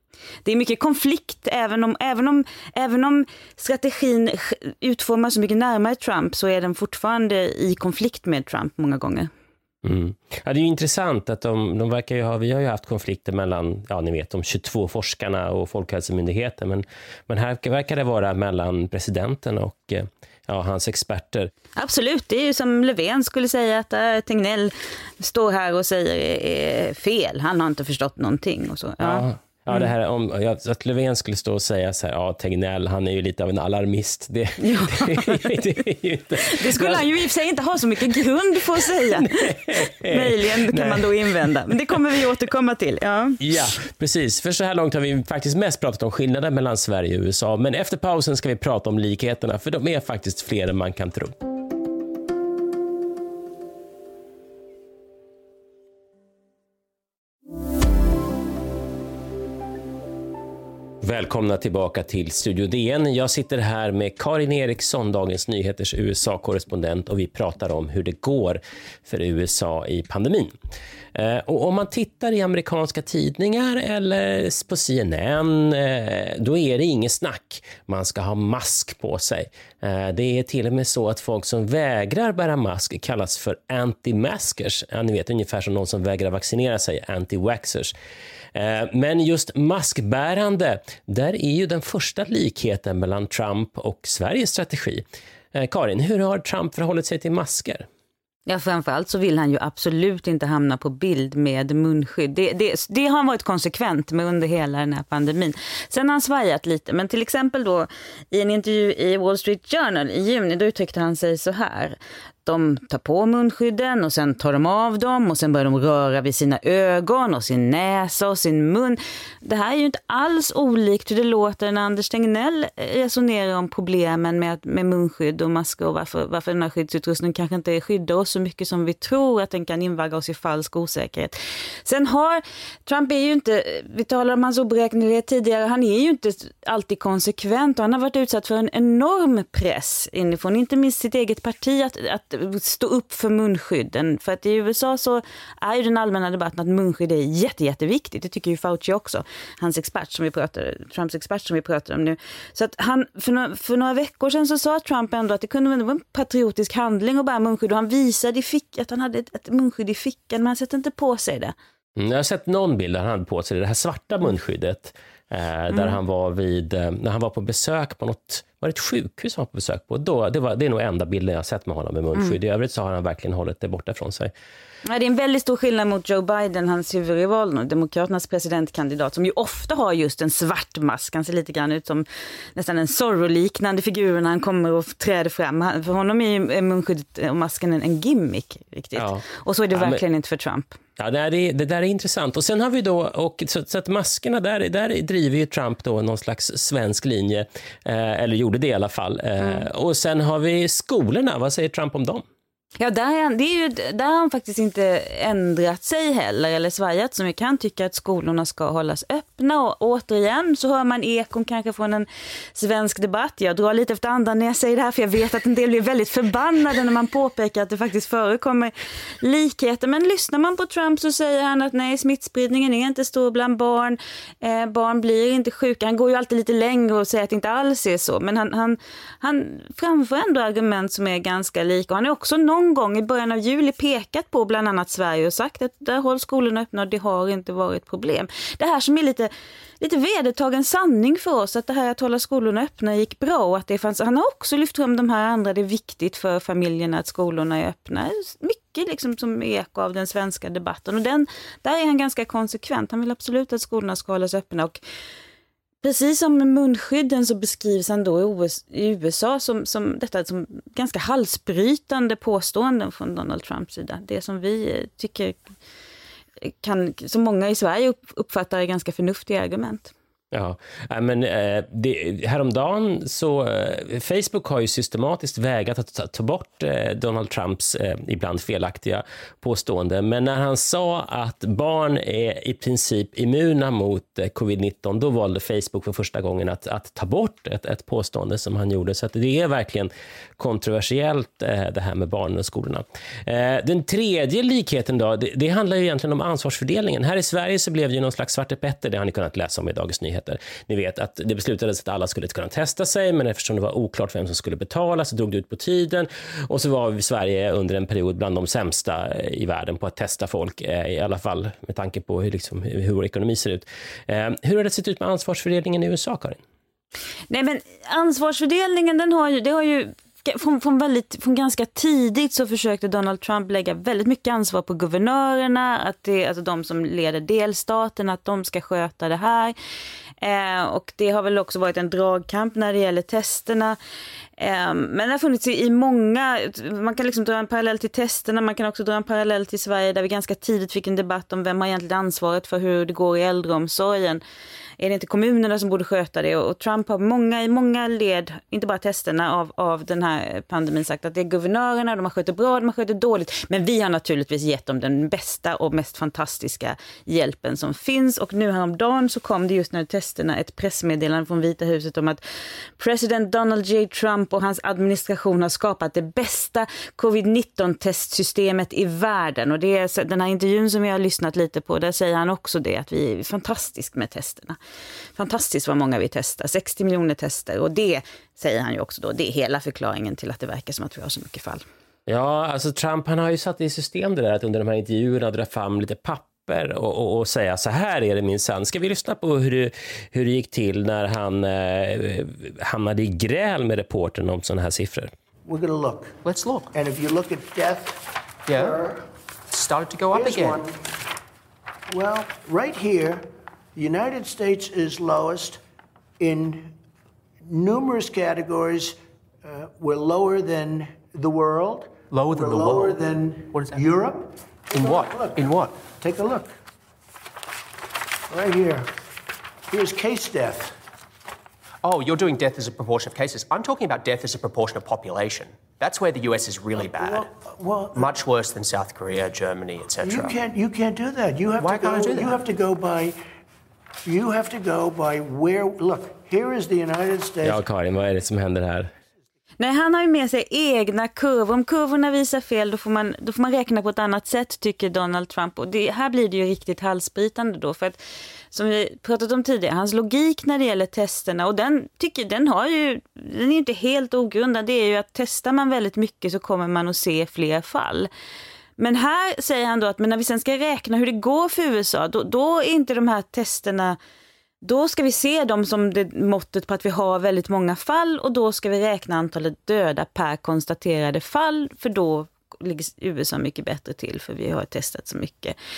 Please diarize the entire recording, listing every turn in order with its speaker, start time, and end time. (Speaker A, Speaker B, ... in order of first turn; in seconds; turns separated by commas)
Speaker A: 0.4-9.3, Speaker B: 9.8-21.5, Speaker A: 21.8-29.9, Speaker B: 29.0-37.0, Speaker A: 34.6-35.7, Speaker A: 36.4-43.4, Speaker B: 39.1-41.1, Speaker B: 43.4-51.4, Speaker B: 61.0-70.5, Speaker B: 71.2-87.9, Speaker B: 88.5-97.9, Speaker A: 98.5-161.5, Speaker B: 162.0-174.3, Speaker A: 165.7-166.0, Speaker A: 174.8-190.8, Speaker B: 189.0-190.0, Speaker B: 191.0-202.2, Speaker A: 202.8-239.3, Speaker A: 239.8-254.8, Speaker A: 255.8-265.4, Speaker A: 266.4-269.9, Speaker B: 270.3-316.4, Speaker A: 317.3-329.6, Speaker A: 330.2-333.8, Speaker A: 334.4-344.2, Speaker A: 344.8-362.2, Speaker A: 362.8-374.6, Speaker A: 375.2-381.6, Speaker B: 382.1-395.1, Speaker C: 395.4-396.2, Speaker D: 396.2-396.7, Speaker C: 396.7-399.0, Speaker D: 398.5-398.8, Speaker D: 399.5-400.6, Speaker C: 400.1-400.8, Speaker C: 401.9-403.2, Speaker C: 403.8-405.6, Speaker C: 406.2-406.7, Speaker C: 407.4-416.6, Speaker D: 412.1-413.8, Speaker D: 414.7-415.8, Speaker C: 418.3-418.9, Speaker C: 419.7-420.8, Speaker D: 421.8-427.3, Speaker C: 426.9-428.1, Speaker D: 427.9-430.4, Speaker C: 430.0-433.2, Speaker D: 431.6-432.4, Speaker C: 434.1-437.6, Speaker B: 437.4-438.9, Speaker A: 439.6-448.0, Speaker A: 448.5-458.1, Speaker A: 458.8-464.0, Speaker A: 464.6-475.6